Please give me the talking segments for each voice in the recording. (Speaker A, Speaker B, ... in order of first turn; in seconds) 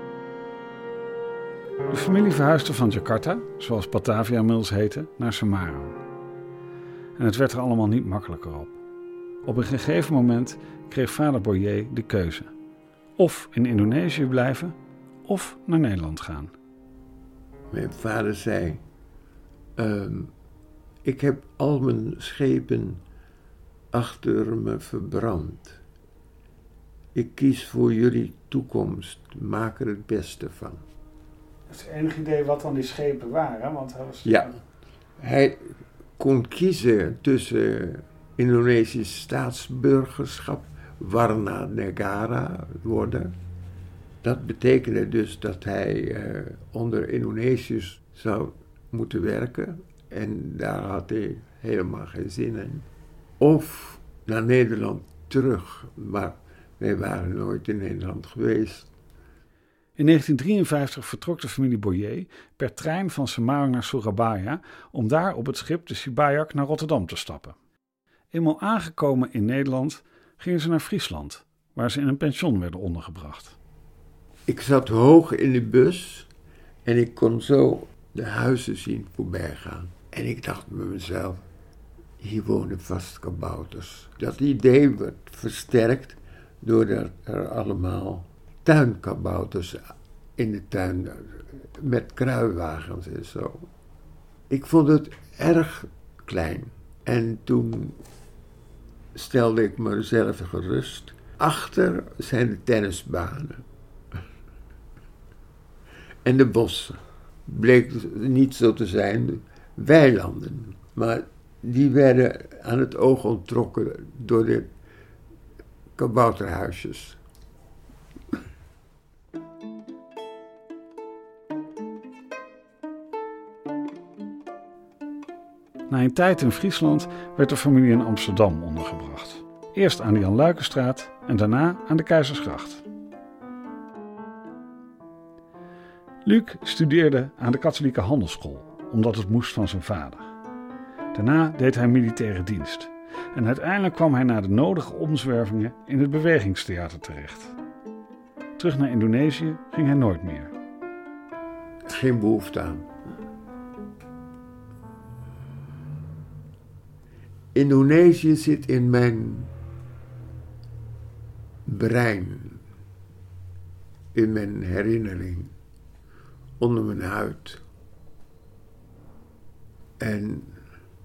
Speaker A: 1.9-6.0, 7.2-8.8, 9.4-12.5, 13.2-16.5, 31.7-34.5, 60.0-67.6, 68.3-73.6, 125.9-132.8, 136.2-140.2, 141.1-147.6, 148.6-150.5
Speaker B: 17.7-18.8, 19.8-20.3, 21.0-23.0, 23.9-25.8, 27.1-30.8, 34.2-34.5, 35.2-43.3, 44.2-52.9, 53.4-58.9, 74.5-76.3, 76.8-81.4, 82.2-89.8, 90.4-93.7, 94.5-98.0, 99.1-103.6, 106.2-114.7, 116.0-117.2, 151.8-152.9, 157.5-159.5, 161.7-162.6, 164.1-165.5, 166.6-167.6, 170.0-170.6